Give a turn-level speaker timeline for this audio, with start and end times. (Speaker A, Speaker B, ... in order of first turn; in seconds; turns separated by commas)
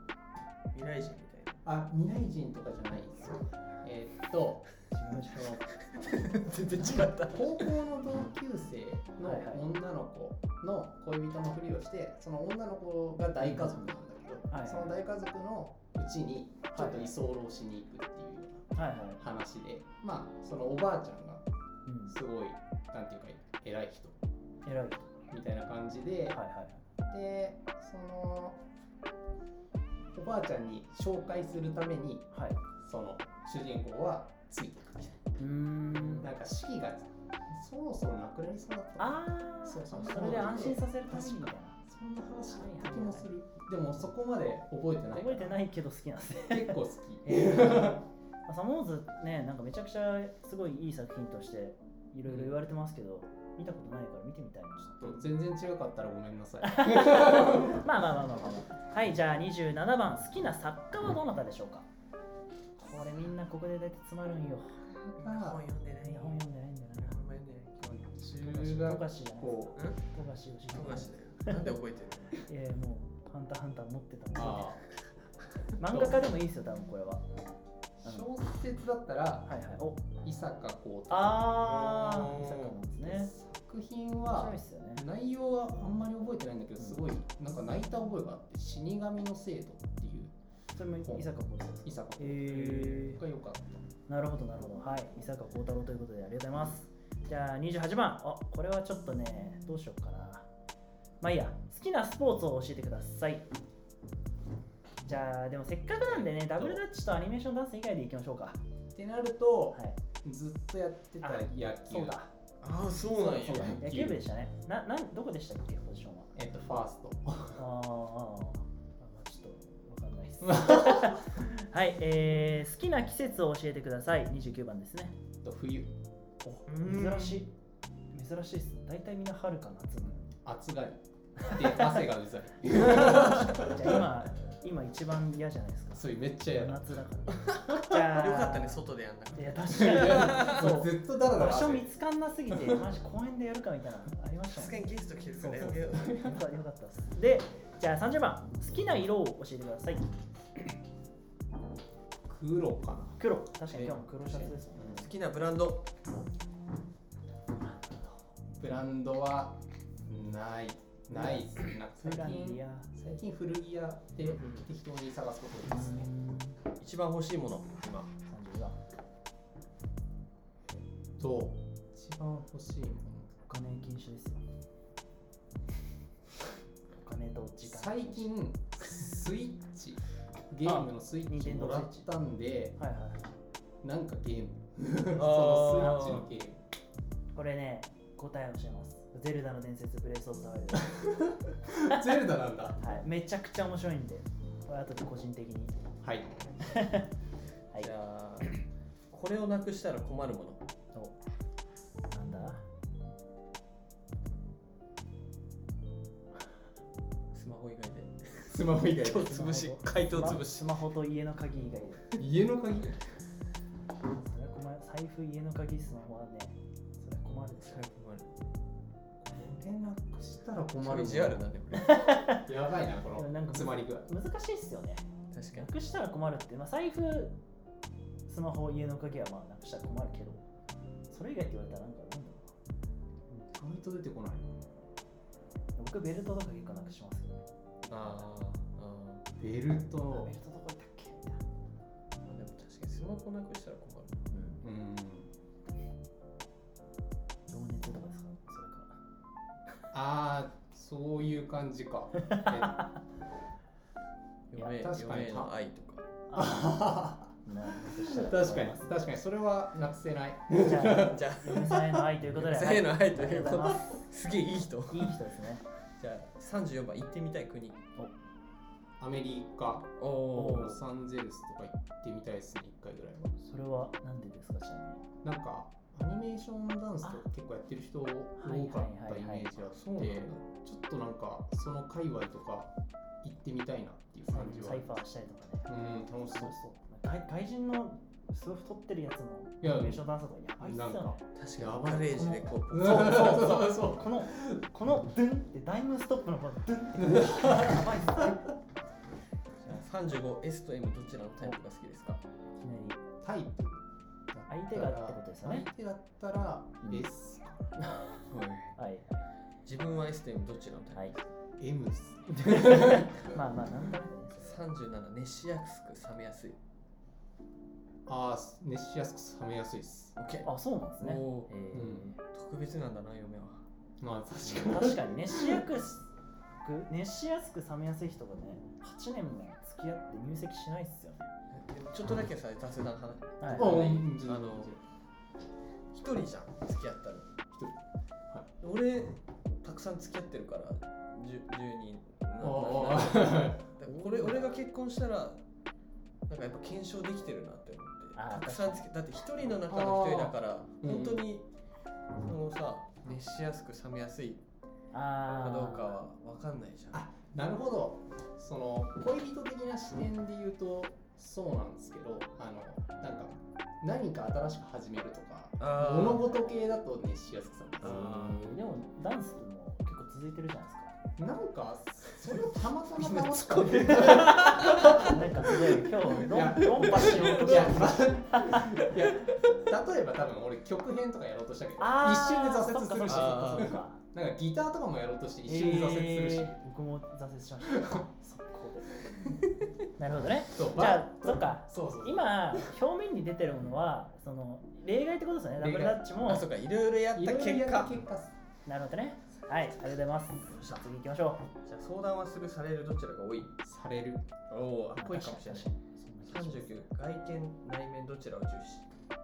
Speaker A: 0.7-1.6, Speaker B: 1.6-4.7, Speaker C: 4.9-5.6, Speaker A: 5.9-7.8, Speaker C: 6.8-7.0, Speaker B: 6.8-21.4, Speaker C: 9.2-9.6, Speaker C: 13.4-13.8, Speaker C: 14.5-15.0, Speaker C: 16.7-17.1, Speaker C: 18.8-19.2, Speaker C: 21.9-22.1, Speaker B: 22.1-24.2, Speaker C: 24.7-25.1, Speaker B: 25.3-26.4, Speaker C: 26.3-26.8, Speaker B: 27.1-28.6, Speaker B: 30.1-32.3, Speaker C: 32.3-32.6, Speaker B: 32.8-35.3, Speaker C: 35.4-36.3, Speaker A: 35.9-36.3, Speaker B: 36.2-45.6, Speaker C: 39.0-41.8, Speaker C: 42.5-43.3, Speaker C: 45.1-55.2, Speaker B: 46.5-48.0, Speaker B: 55.0-57.9, Speaker C: 56.6-61.9, Speaker C: 62.8-64.9, Speaker B: 65.1-65.7, Speaker A: 65.1-66.4, Speaker C: 66.0-67.2, Speaker A: 67.0-68.6, Speaker B: 67.8-69.8, Speaker C: 68.4-71.7, Speaker A: 70.7-72.4, Speaker C: 72.5-74.7, Speaker B: 74.3-74.8, Speaker C: 75.8-77.2, Speaker B: 75.8-76.2, Speaker B: 78.0-79.6, Speaker C: 79.5-80.1, Speaker B: 80.2-81.6, Speaker C: 81.1-83.3, Speaker A: 81.7-82.8, Speaker B: 83.0-90.3, Speaker C: 84.3-85.0, Speaker C: 90.8-93.2, Speaker B: 91.0-91.3, Speaker B: 91.8-93.9, Speaker C: 94.1-100.5, Speaker C: 101.2-103.5, Speaker C: 105.0-108.6, Speaker B: 106.0-106.8, Speaker B: 109.0-112.2, Speaker C: 111.2-112.3, Speaker A: 112.6-113.8, Speaker B: 113.2-114.2, Speaker C: 113.8-116.3, Speaker B: 116.3-117.6, Speaker C: 117.6-125.2, Speaker B: 120.5-121.2, Speaker B: 125.4-126.0, Speaker C: 126.6-127.5, Speaker A: 126.7-127.4, Speaker C: 128.1-130.3, Speaker B: 130.0-134.1, Speaker C: 131.4-132.0, Speaker C: 132.7-138.8, Speaker B: 135.9-137.0, Speaker A: 137.5-140.7, Speaker C: 139.4-144.9, Speaker B: 139.7-141.9, Speaker A: 144.5-146.3, Speaker B: 145.4-146.4, Speaker C: 145.7-150.1, Speaker B: 152.3-155.1, Speaker C: 153.2-155.1, Speaker A: 154.4-155.9, Speaker B: 158.6-166.1, Speaker C: 161.1-162.9, Speaker A: 164.2-164.7, Speaker C: 165.7-166.6, Speaker A: 166.8-168.1, Speaker C: 168.3-168.8, Speaker B: 170.7-173.4, Speaker C: 173.5-174.4, Speaker C: 177.0-178.3, Speaker B: 177.6-182.8, Speaker C: 180.7-182.1, Speaker C: 182.8-183.3, Speaker B: 183.8-186.6, Speaker A: 185.1-186.2, Speaker C: 185.8-186.3, Speaker C: 187.3-191.0, Speaker B: 190.9-192.8, Speaker C: 192.8-195.7, Speaker B: 196.0-196.3, Speaker C: 196.6-197.1, Speaker A: 197.8-198.6, Speaker A: 199.1-200.6, Speaker C: 202.1-202.6, Speaker A: 207.3-210.7, Speaker B: 208.5-210.4, Speaker C: 209.3-212.2, Speaker B: 212.2-213.0, Speaker C: 214.1-217.8, Speaker A: 217.6-218.3, Speaker B: 219.2-221.5, Speaker A: 220.8-222.0, Speaker C: 221.7-222.4, Speaker B: 222.3-224.1, Speaker C: 223.2-227.4, Speaker A: 225.3-225.7, Speaker C: 228.3-230.4, Speaker C: 231.1-232.5, Speaker B: 233.5-234.5, Speaker C: 235.8-237.4, Speaker A: 237.9-239.2, Speaker B: 239.4-240.4, Speaker C: 240.1-241.4, Speaker A: 242.2-244.2, Speaker C: 244.3-244.6, Speaker B: 244.6-245.3, Speaker C: 247.5-249.0, Speaker B: 249.9-252.8, Speaker C: 252.2-252.9, Speaker A: 254.5-256.1, Speaker C: 254.6-254.9, Speaker B: 254.8-255.5, Speaker C: 256.3-256.8, Speaker B: 256.3-261.2, Speaker C: 257.5-258.9, Speaker C: 260.5-264.1, Speaker A: 260.9-265.2, Speaker C: 264.9-265.6, Speaker A: 266.0-267.8, Speaker B: 269.0-273.3, Speaker A: 270.0-270.8, Speaker C: 270.4-270.7, Speaker C: 273.4-275.0, Speaker B: 275.2-285.0, Speaker C: 278.4-279.6, Speaker A: 279.7-280.4, Speaker C: 284.3-291.2, Speaker B: 285.7-286.6, Speaker B: 289.6-290.1, Speaker B: 290.6-294.6, Speaker A: 291.4-293.5, Speaker C: 292.8-298.5, Speaker B: 297.0-297.9, Speaker A: 299.6-302.2, Speaker C: 302.6-303.0, Speaker B: 303.2-307.8, Speaker C: 304.5-305.7, Speaker A: 308.3-308.7, Speaker C: 308.8-309.2, Speaker A: 309.6-311.3, Speaker B: 311.6-313.2, Speaker C: 312.3-314.6, Speaker A: 314.4-316.6, Speaker B: 318.1-320.1, Speaker A: 320.2-320.5, Speaker C: 320.4-322.2, Speaker A: 321.0-321.5, Speaker B: 321.7-322.1, Speaker A: 322.3-323.6, Speaker B: 324.0-325.6, Speaker C: 324.6-331.3, Speaker A: 331.5-334.8, Speaker C: 333.4-333.8, Speaker B: 333.5-334.8, Speaker A: 335.9-337.3, Speaker B: 337.5-337.8, Speaker A: 338.6-345.4, Speaker B: 342.4-343.7, Speaker C: 343.9-344.5, Speaker A: 346.3-351.5, Speaker C: 348.2-348.9, Speaker B: 349.7-351.3, Speaker A: 352.2-354.4, Speaker C: 354.9-356.0, Speaker A: 355.3-357.0, Speaker B: 356.9-368.5, Speaker A: 365.6-366.4, Speaker A: 367.8-368.6, Speaker C: 368.2-370.9, Speaker B: 371.2-386.6, Speaker A: 373.0-378.0, Speaker C: 374.9-378.8, Speaker A: 378.7-379.1, Speaker C: 381.8-384.0, Speaker A: 383.1-383.8, Speaker C: 385.5-389.0, Speaker B: 387.7-388.0, Speaker C: 390.0-396.5, Speaker B: 390.5-392.7, Speaker B: 395.6-396.0, Speaker A: 396.2-398.0, Speaker B: 397.1-398.4, Speaker C: 398.7-401.4, Speaker A: 400.4-400.8, Speaker A: 401.6-403.6, Speaker B: 403.6-404.3, Speaker A: 404.5-405.7, Speaker C: 405.0-406.8, Speaker A: 406.3-408.9